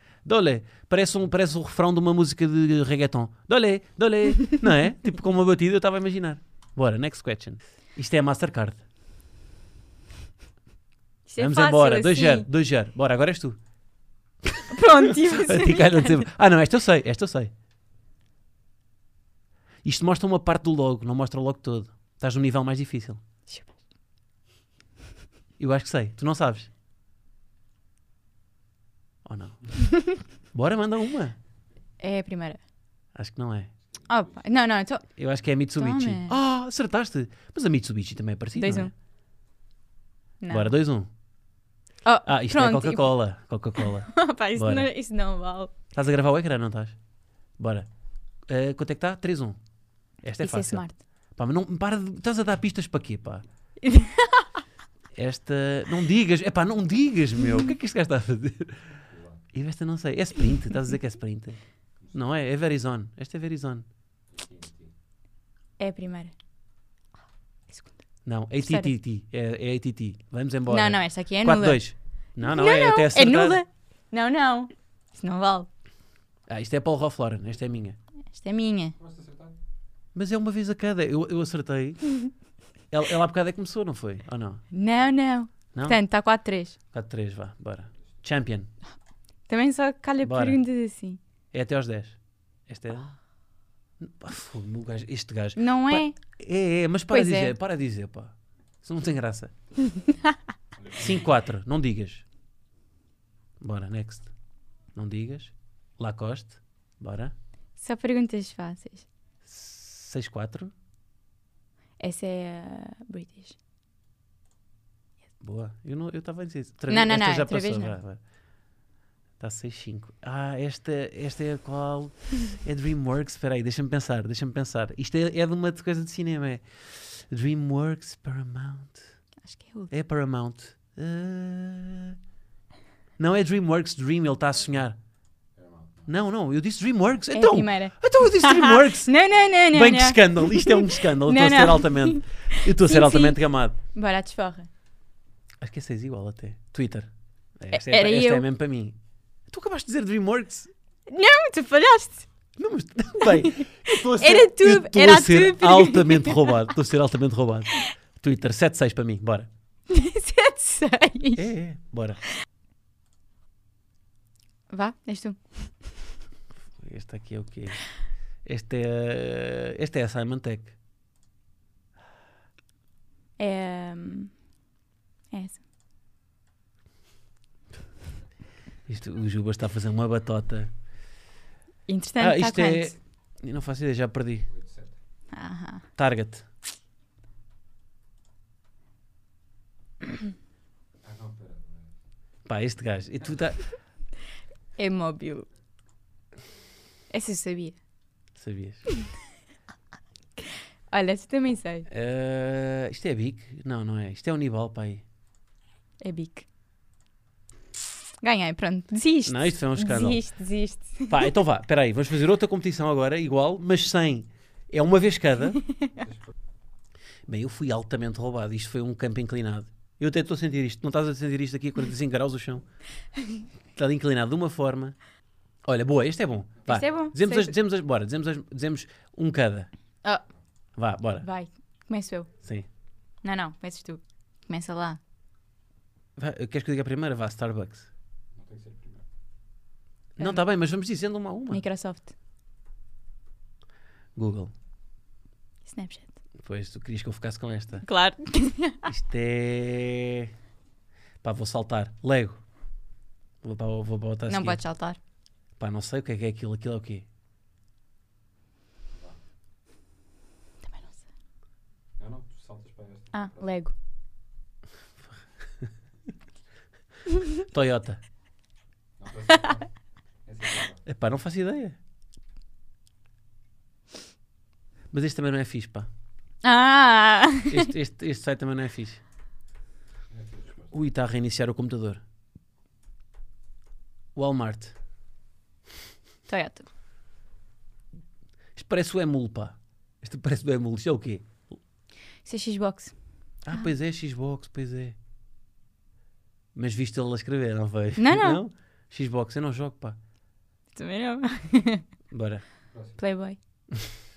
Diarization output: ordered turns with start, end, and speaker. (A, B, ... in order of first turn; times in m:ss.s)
0:00.2-0:08.8 A
0:11.3-0:12.5 B
0:11.4-0:13.6 A
0:14.4-0:17.5 A
0:14.7-0:16.2 B
0:19.8-0:23.2 A
0:25.6-0:26.7 A
0:29.2-0:29.7 A
0:29.9-0:30.2 B
0:30.5-0:31.4 A
0:32.0-0:32.6 B
0:33.2-0:33.7 A
0:33.9-0:34.4 C
0:34.1-0:35.1 B
0:35.2-0:38.9 A
0:35.8-0:36.4 B
0:38.6-0:38.9 B
0:40.4-0:40.7 B
0:40.5-0:41.1 A
0:42.0-0:43.1 B
0:42.3-0:44.9 A
0:43.8-0:45.7 B
0:45.9-0:47.0 A
0:47.6-0:47.9 A
0:48.5-0:49.6 A
0:50.2-0:50.8 A
0:50.4-0:51.0 B
0:51.4-0:53.4 A
0:53.8-0:54.5 B
0:55.1-0:58.9 A
0:59.1-0:59.4 C
0:59.5-1:01.6 A
1:02.0-1:02.3 C
1:02.1-1:03.8 A
1:04.3-1:04.9 C
1:05.8-1:06.3 B
1:08.2-1:13.6 A
1:08.6-1:08.9 B
1:10.7-1:11.8 B
1:12.4-1:15.7 B
1:16.5-1:18.0 A
1:18.3-1:19.0 B
1:19.0-1:19.6 C
1:20.1-1:22.2 A
1:22.9-1:24.6 A
1:24.7-1:26.8 B
1:26.9-1:28.7 A
1:29.5-1:31.2 B
1:30.2-1:30.6 A
1:31.5-1:33.1 A
1:34.0-1:39.5 A
1:35.6-1:36.2 B
1:37.1-1:37.5 B
1:39.9-1:40.4 B
1:40.8-1:41.2 C
1:41.0-1:42.2 A
1:43.6-1:44.3 A
1:45.0-1:47.3 A
1:47.8-1:49.1 B
1:49.5-1:50.7 A
1:52.0-1:53.6 B
1:55.4-1:58.2 A
1:56.9-1:58.0 B
1:59.4-2:09.1 A
2:09.5-2:09.9 B
2:09.9-2:12.2 A
2:13.2-2:15.0 A
2:14.5-2:14.8 C
2:15.6-2:16.2 C
2:16.1-2:23.8 A
2:17.3-2:24.7 B
2:25.6-2:29.0 A
2:27.7-2:28.4 B
2:29.5-2:30.7 A
2:31.1-2:32.3 B
2:32.6-2:39.5 A
2:33.2-2:36.6 B
2:39.9-2:41.5 B
2:41.4-2:42.2 A
2:44.7-2:45.9 B
2:46.8-2:47.8 A
2:48.4-2:50.7 A
2:53.4-2:54.3 B
2:55.3-2:55.6 B
2:58.9-3:00.7 A
3:01.9-3:03.0 B
3:02.2-3:04.5 A
3:04.5-3:05.0 C
3:05.3-3:05.9 B
3:06.0-3:06.5 A
3:11.0-3:12.0 C
3:12.5-3:13.6 A
3:14.8-3:15.5 B
3:17.1-3:17.8 B
3:18.4-3:18.8 A
3:20.4-3:21.9 B
3:21.9-3:25.0 A
3:26.0-3:26.5 B
3:28.2-3:31.3 B
3:29.3-3:30.2 A
3:31.1-3:35.6 A
3:35.6-3:36.0 B
3:37.3-3:42.6 A
3:43.8-3:45.0 A
3:45.6-3:49.7 A
3:46.7-3:47.5 B
3:50.8-3:51.3 A
3:51.2-3:52.3 B
3:53.2-3:55.0 B
3:56.2-3:57.9 A
3:58.4-3:59.0 C
4:00.2-4:01.6 A
4:01.5-4:02.1 B
4:04.2-4:04.5 A
4:05.6-4:06.2 B
4:06.4-4:07.9 A
4:07.8-4:08.9 B
4:08.9-4:10.3 A
4:11.2-4:12.4 A
4:13.4-4:14.6 A
4:14.3-4:15.0 B
4:15.6-4:17.1 A
4:18.9-4:19.2 C
4:20.7-4:21.0 B
4:22.0-4:23.5 C
4:23.1-4:23.7 B
4:25.1-4:25.7 A
4:27.4-4:28.0 A
4:29.0-4:30.8 C
4:30.9-4:31.8 A
4:34.9-4:35.9 A
4:36.4-4:37.7 B
4:37.5-4:39.0 A
4:40.1-4:40.7 C
4:40.7-4:42.0 A
4:44.2-4:44.8 A
4:46.3-4:46.7 B
4:48.6-4:51.5 A
4:52.2-4:52.9 B
4:53.4-4:55.0 A
4:56.6-5:00.0 A
4:58.0-4:58.4 B
5:00.8-5:01.9 B
5:02.1-5:02.4 A
5:02.7-5:03.0 C
5:03.0-5:03.4 B